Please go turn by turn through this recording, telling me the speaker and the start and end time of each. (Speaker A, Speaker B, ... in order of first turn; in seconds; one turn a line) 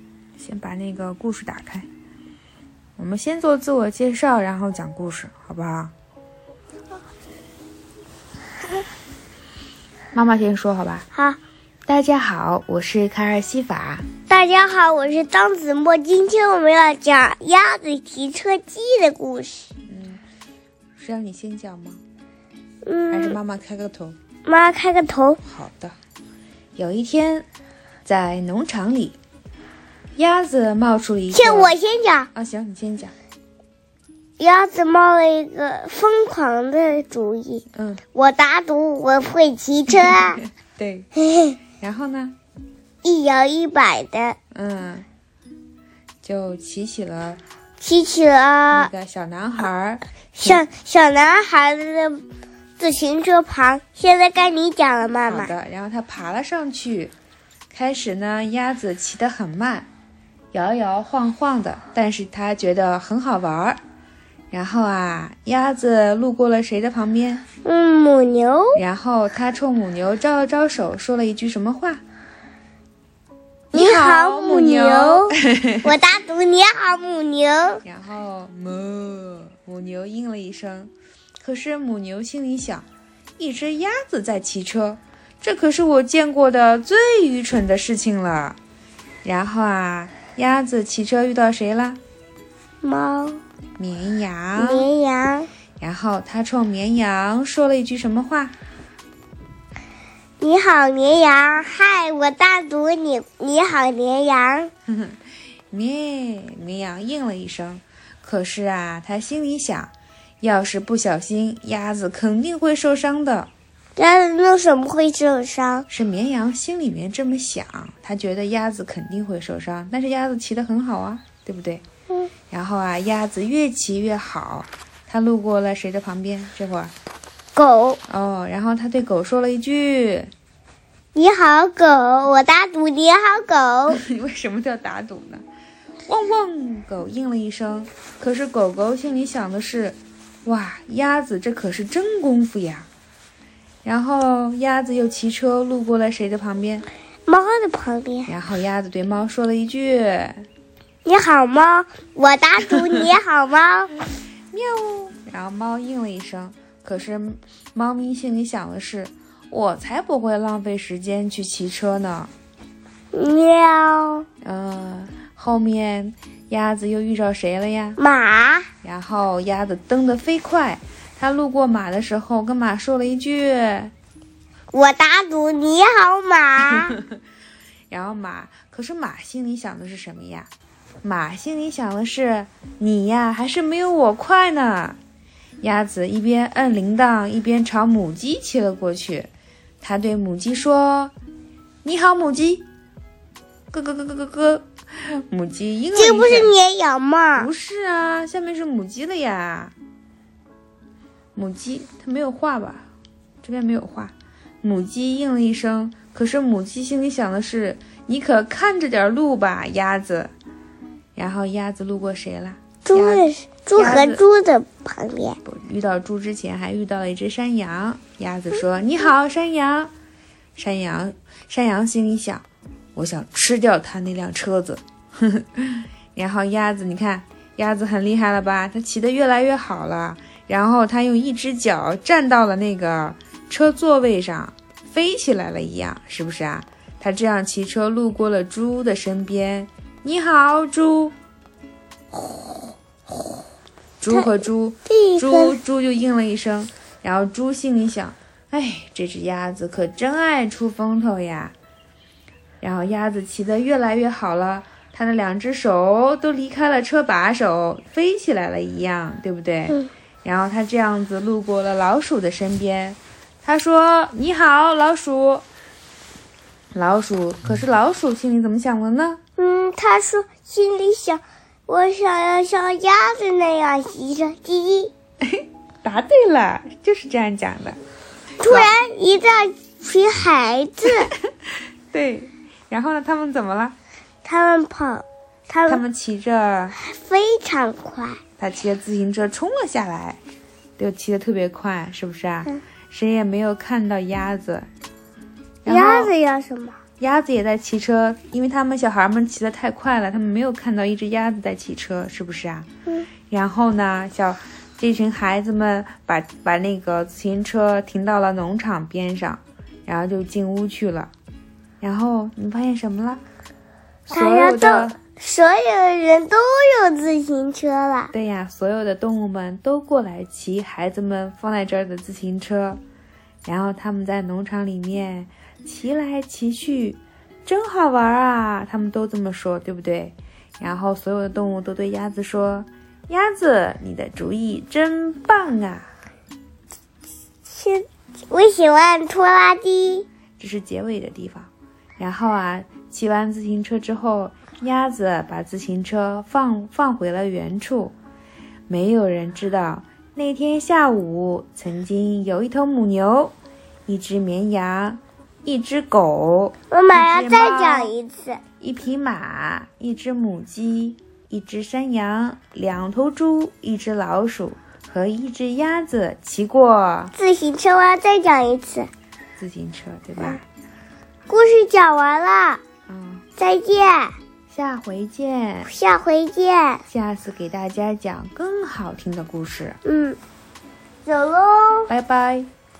Speaker A: 0.4-1.9
Speaker A: 3.0-5.9
Speaker A: 10.1-11.1
Speaker B: 11.1-11.4
Speaker A: 11.9-14.1
Speaker B: 14.3-19.7
Speaker A: 19.9-20.2
Speaker A: 21.0-22.0
Speaker B: 22.8-23.4
Speaker A: 23.1-24.2
Speaker B: 24.5-25.4
Speaker A: 25.4-26.0
Speaker A: 26.8-27.5
Speaker A: 28.1-29.2
Speaker A: 30.2-31.8
Speaker B: 31.3-32.3
Speaker A: 32.3-33.1
Speaker B: 34.4-40.4
Speaker A: 37.7-38.0
Speaker A: 40.0-41.1
Speaker B: 41.2-41.6
Speaker A: 41.8-42.4
Speaker B: 43.0-44.4
Speaker A: 44.5-45.1
Speaker A: 46.2-47.4
Speaker B: 47.8-48.9
Speaker A: 48.7-50.6
Speaker B: 50.4-52.3
Speaker B: 52.8-55.5
Speaker A: 55.2-57.1
Speaker A: 57.7-59.9
Speaker A: 60.5-63.8
Speaker A: 64.5-67.4
Speaker B: 67.7-68.8
Speaker A: 68.8-72.0
Speaker A: 73.7-75.9
Speaker B: 73.7-77.8
Speaker A: 77.8-82.9
Speaker A: 83.4-88.6
Speaker A: 89.2-92.0
Speaker B: 92.8-93.4
Speaker A: 93.8-94.9
Speaker B: 94.6-95.5
Speaker A: 95.8-98.5
Speaker B: 100.4-104.7
Speaker A: 104.9-113.5
Speaker B: 114.0-115.9
Speaker A: 115.9-121.8
Speaker A: 122.5-126.9
Speaker B: 127.5-128.0
Speaker A: 128.1-130.3
Speaker B: 131.2-134.0
Speaker A: 133.9-135.4
Speaker A: 136.1-142.9
Speaker A: 143.8-146.9
Speaker B: 147.3-148.3
Speaker A: 148.3-150.5
Speaker B: 151.1-153.9
Speaker A: 154.5-162.3
Speaker B: 163.1-164.3
Speaker A: 164.4-168.0
Speaker B: 168.0-168.7
Speaker A: 168.8-173.9
Speaker B: 174.7-177.0
Speaker A: 176.7-177.0
Speaker A: 177.9-180.5
Speaker A: 181.0-185.0
Speaker A: 185.6-189.3
Speaker A: 189.8-191.1
Speaker A: 191.8-192.7
Speaker A: 193.7-196.6
Speaker B: 195.9-197.5
Speaker A: 197.4-199.7
Speaker A: 201.3-202.9
Speaker A: 203.4-210.3
Speaker A: 211.2-214.2
Speaker B: 212.8-215.4
Speaker A: 215.4-219.9
Speaker A: 220.6-241.1
Speaker A: 244.0-251.5
Speaker B: 244.9-245.6
Speaker A: 252.6-265.4
Speaker A: 266.7-269.2
Speaker B: 269.4-274.9
Speaker A: 275.2-277.8
Speaker B: 278.4-281.1
Speaker A: 278.4-278.8
Speaker A: 281.9-283.8
Speaker B: 284.2-285.8
Speaker A: 285.7-286.8
Speaker B: 286.8-288.2
Speaker A: 288.4-290.2
Speaker A: 290.8-294.7
Speaker A: 295.6-296.1
Speaker B: 295.7-296.8
Speaker A: 297.0-302.7
Speaker A: 303.3-311.1
Speaker A: 311.8-313.2
Speaker A: 314.1-315.0
Speaker B: 314.1-318.1
Speaker A: 318.1-322.8
Speaker A: 323.4-335.9
Speaker B: 337.5-340.1
Speaker A: 340.4-347.9
Speaker A: 348.7-353.3
Speaker A: 353.9-357.9
Speaker B: 356.7-358.4
Speaker A: 358.6-367.1
Speaker B: 367.1-368.9
Speaker A: 369.4-370.4
Speaker B: 371.3-372.6
Speaker A: 372.9-373.3
Speaker B: 373.4-374.2
Speaker A: 374.5-375.7
Speaker B: 375.6-376.8
Speaker A: 376.9-379.8
Speaker B: 379.8-380.2
Speaker B: 381.1-381.9
Speaker A: 381.9-382.5